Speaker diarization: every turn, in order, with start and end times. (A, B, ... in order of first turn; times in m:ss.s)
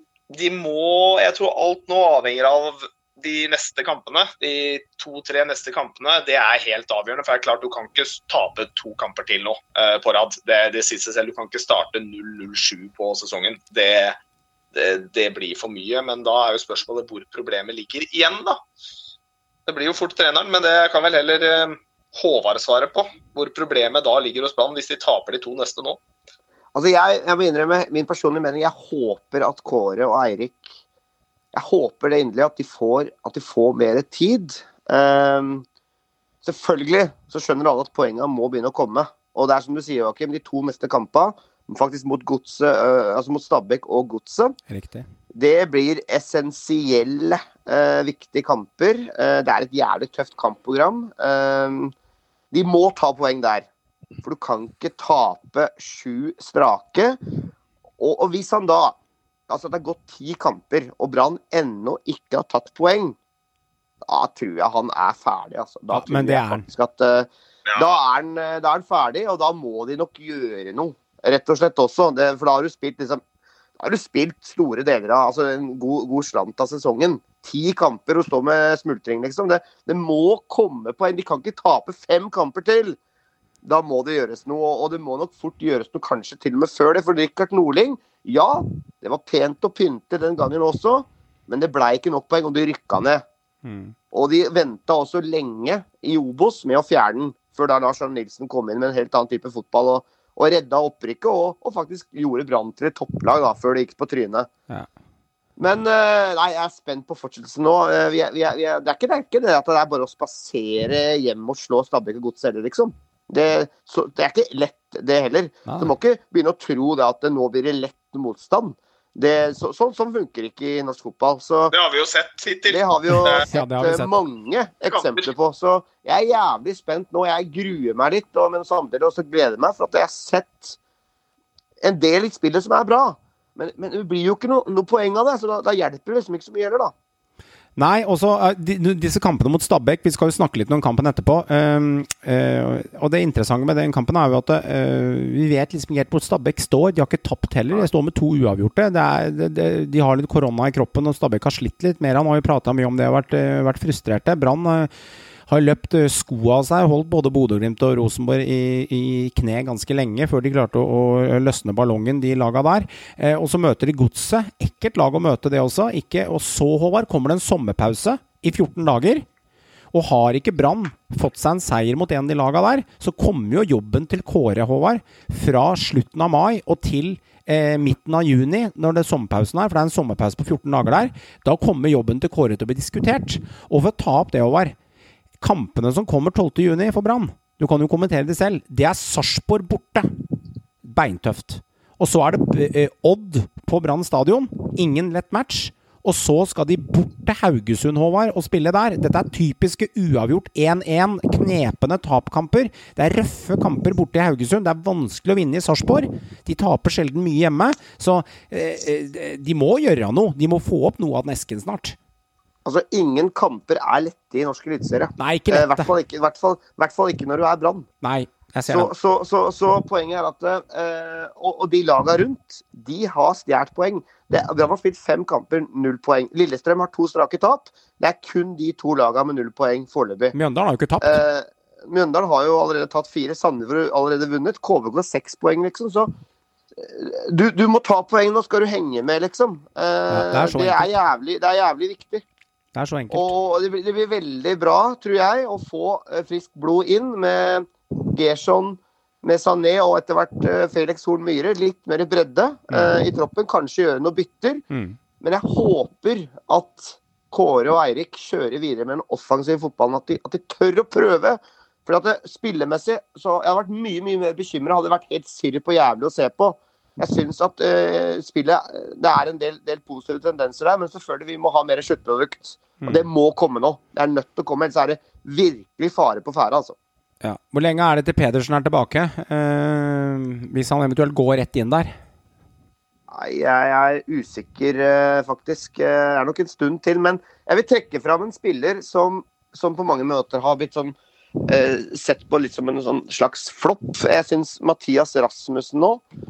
0:00.3-0:14.2 A
0:14.7-0:18.6 A
0:19.7-0:26.0 A
0:26.7-0:30.6 B
0:31.5-0:35.6 B
0:36.4-0:44.6 B
0:44.7-0:45.1 C
0:45.3-0:51.9 B
0:52.5-0:53.7 B
0:54.2-0:57.2 B
0:58.0-0:59.0 B
0:59.5-1:03.2 B
1:04.0-1:13.2 B
1:05.9-1:06.6 C
1:13.8-1:23.0 B
1:23.6-1:33.2 B
1:33.6-1:33.9 C
1:34.1-1:44.5 B
1:45.6-2:01.7 B
1:55.6-1:55.9 C
2:01.7-2:03.4 A
2:02.7-2:10.8 B
2:03.1-2:04.1 C
2:04.9-2:05.3 A
2:11.8-2:16.9 B
2:17.8-2:34.9 C
2:35.5-2:49.2 C
2:49.9-3:04.7 C
3:05.4-3:10.1 C
3:10.8-3:32.0 C
3:32.6-3:37.9 B
3:35.2-3:35.9 C
3:38.0-3:38.9 C
3:38.7-3:50.3 B
3:50.3-3:51.2 C
3:51.0-3:56.1 B
3:56.8-4:02.2 B
4:00.1-4:01.0 C
4:02.7-4:03.3 C
4:03.1-4:14.6 B
4:12.7-4:13.0 C
4:14.7-4:15.0 C
4:15.2-4:36.7 B
4:37.2-4:41.9 C
4:43.1-4:51.0 B
4:51.5-4:56.0 B